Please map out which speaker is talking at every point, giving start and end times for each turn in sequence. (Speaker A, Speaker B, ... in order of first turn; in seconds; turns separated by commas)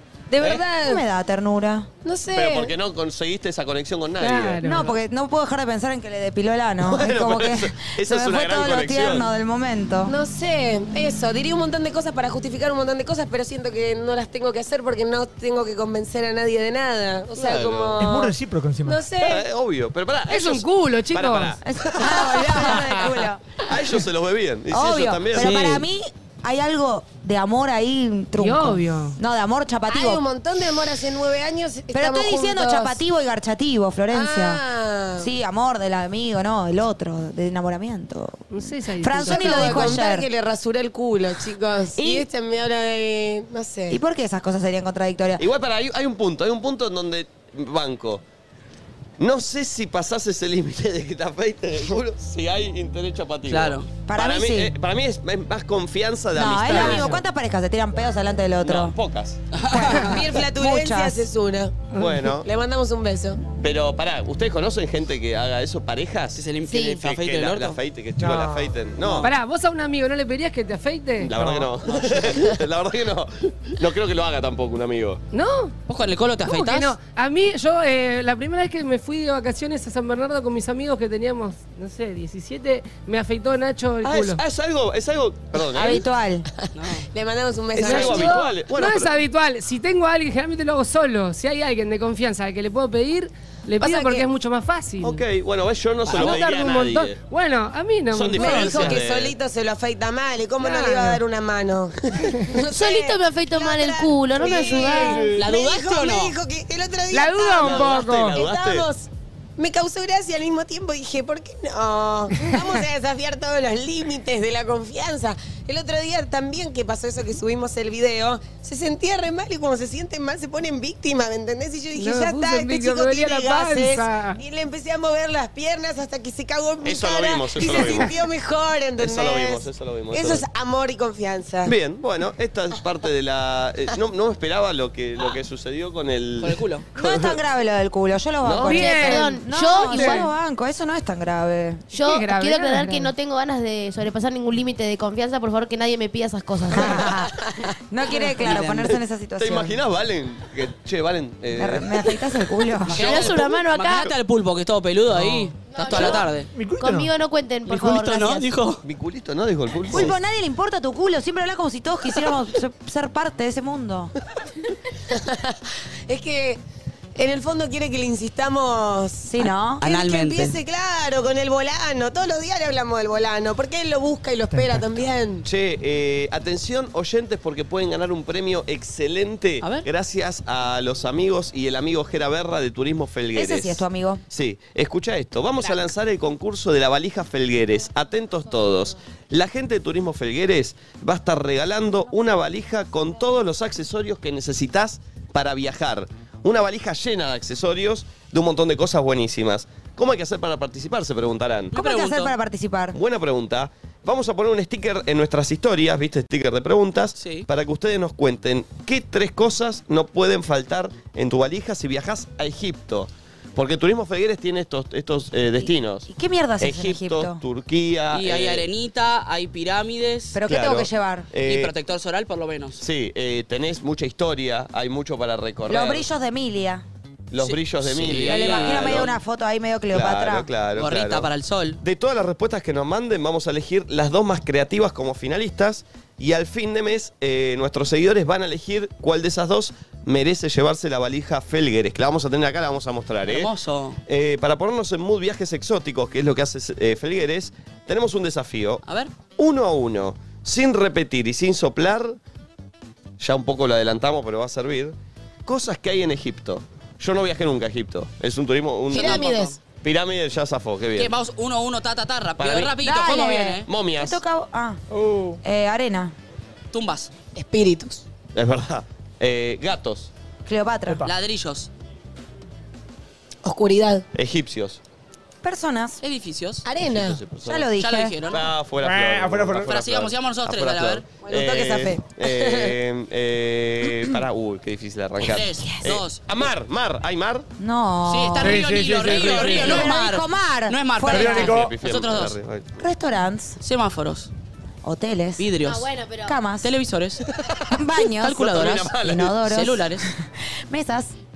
Speaker A: 0.3-1.0, Speaker B: 0.4-1.9, Speaker A: 2.0-2.7, Speaker C: 2.3-4.6, Speaker D: 4.2-5.0, Speaker B: 4.6-10.1, Speaker C: 6.8-9.3, Speaker A: 10.1-19.4, Speaker C: 17.4-18.1, Speaker E: 18.0-19.1, Speaker C: 19.2-25.6, Speaker D: 20.3-21.6, Speaker B: 21.6-23.6, Speaker A: 22.1-22.8, Speaker B: 24.7-30.2, Speaker F: 25.4-25.9, Speaker D: 28.4-29.2, Speaker A: 29.9-33.0, Speaker B: 31.9-34.6, Speaker A: 34.1-35.3, Speaker B: 35.2-40.3, Speaker D: 38.5-40.0, Speaker A: 39.3-44.0, Speaker B: 42.0-42.3, Speaker B: 43.9-45.5, Speaker C: 45.4-48.2, Speaker C: 49.2-57.2, Speaker F: 53.5-53.9, Speaker B: 54.1-54.7, Speaker B: 56.3-59.0, Speaker D: 56.9-57.1, Speaker C: 58.6-59.4, Speaker F: 59.5-60.1, Speaker B: 59.7-61.2, Speaker A: 59.9-63.4, Speaker D: 61.9-62.2, Speaker C: 62.0-62.5, Speaker C: 63.6-66.5, Speaker F: 66.4-67.8, Speaker G: 66.7-67.0, Speaker C: 67.0-69.3, Speaker E: 68.2-68.7, Speaker D: 69.2-71.3, Speaker C: 71.2-75.2, Speaker E: 71.3-71.7, Speaker D: 75.3-75.7, Speaker F: 75.9-77.0, Speaker D: 76.4-84.4, Speaker C: 84.0-86.0, Speaker B: 85.7-86.5, Speaker F: 86.7-87.1, Speaker A: 87.1-88.4, Speaker C: 87.8-89.1, Speaker D: 87.8-95.2, Speaker A: 93.8-94.3, Speaker C: 95.0-97.2, Speaker F: 96.0-96.4, Speaker D: 96.1-99.0, Speaker C: 98.1-99.3, Speaker A: 98.4-131.7, Speaker D: 100.6-101.2, Speaker G: 102.7-105.3, Speaker F: 105.3-106.3, Speaker D: 107.1-108.4, Speaker C: 107.6-108.9, Speaker D: 122.0-124.4, Speaker C: 126.8-128.1, Speaker C: 129.0-130.4, Speaker C: 131.6-137.4, Speaker F: 136.4-136.9, Speaker B: 136.9-141.8, Speaker C: 138.4-138.8, Speaker D: 138.6-140.3, Speaker G: 138.7-140.3, Speaker G: 141.9-147.1, Speaker D: 141.9-143.1, Speaker B: 146.7-147.3, Speaker B: 147.9-149.8, Speaker F: 148.4-148.9, Speaker C: 149.4-152.1, Speaker B: 151.6-153.2, Speaker F: 152.9-156.5, Speaker G: 152.9-154.1, Speaker C: 153.0-153.3, Speaker G: 155.7-156.3, Speaker E: 156.5-157.1, Speaker G: 156.8-158.5, Speaker F: 157.7-158.8, Speaker C: 158.8-160.2, Speaker B: 159.9-164.1, Speaker A: 165.1-166.6, Speaker A: 167.2-169.3, Speaker B: 169.2-169.8, Speaker F: 169.8-170.6, Speaker A: 169.8-175.4, Speaker E: 174.5-174.8, Speaker C: 175.4-201.7, Speaker F: 179.6-179.9, Speaker B: 183.3-184.2, Speaker F: 201.7-202.3, Speaker B: 201.7-203.0, Speaker C: 202.9-216.1, Speaker F: 207.2-207.5, Speaker B: 215.6-217.4, Speaker C: 216.6-218.7, Speaker F: 218.1-220.4, Speaker B: 220.3-221.3, Speaker C: 220.5-221.7, Speaker F: 221.4-222.8, Speaker C: 222.8-226.1, Speaker B: 225.7-226.8, Speaker C: 227.3-229.1, Speaker F: 227.4-229.1, Speaker B: 228.3-230.5, Speaker C: 229.9-231.3, Speaker F: 230.8-231.8, Speaker C: 231.8-243.5, Speaker F: 243.3-244.0, Speaker C: 244.1-248.8, Speaker F: 248.8-249.1, Speaker C: 249.4-252.2, Speaker C: 253.2-261.1, Speaker A: 258.9-259.6, Speaker F: 258.9-259.5, Speaker F: 261.0-263.7, Speaker C: 262.4-262.8, Speaker B: 262.8-264.8, Speaker C: 263.7-264.2, Speaker E: 264.9-265.4, Speaker B: 265.4-266.1, Speaker F: 266.7-267.1, Speaker A: 267.4-268.0, Speaker C: 268.3-270.1, Speaker B: 270.4-271.1, Speaker F: 271.1-271.7, Speaker A: 273.4-274.1, Speaker C: 274.1-274.8, Speaker B: 275.4-276.0, Speaker F: 276.0-276.7, Speaker A: 276.6-277.2, Speaker C: 276.8-277.7, Speaker B: 277.4-278.2, Speaker F: 277.7-278.5, Speaker C: 278.3-287.5, Speaker E: 278.8-279.7, Speaker F: 279.6-281.1, Speaker A: 281.2-282.7, Speaker F: 285.2-286.2, Speaker B: 287.6-291.6, Speaker F: 288.1-292.4, Speaker E: 288.4-289.9, Speaker E: 291.1-291.8, Speaker C: 291.2-292.7, Speaker B: 292.8-293.6, Speaker F: 293.6-294.3, Speaker B: 294.8-295.5, Speaker F: 295.4-295.9, Speaker G: 295.6-296.4, Speaker B: 296.2-296.7, Speaker F: 296.6-297.2, Speaker B: 297.7-298.5, Speaker F: 298.1-300.1, Speaker C: 298.4-299.3, Speaker B: 299.0-300.1, Speaker B: 300.7-301.1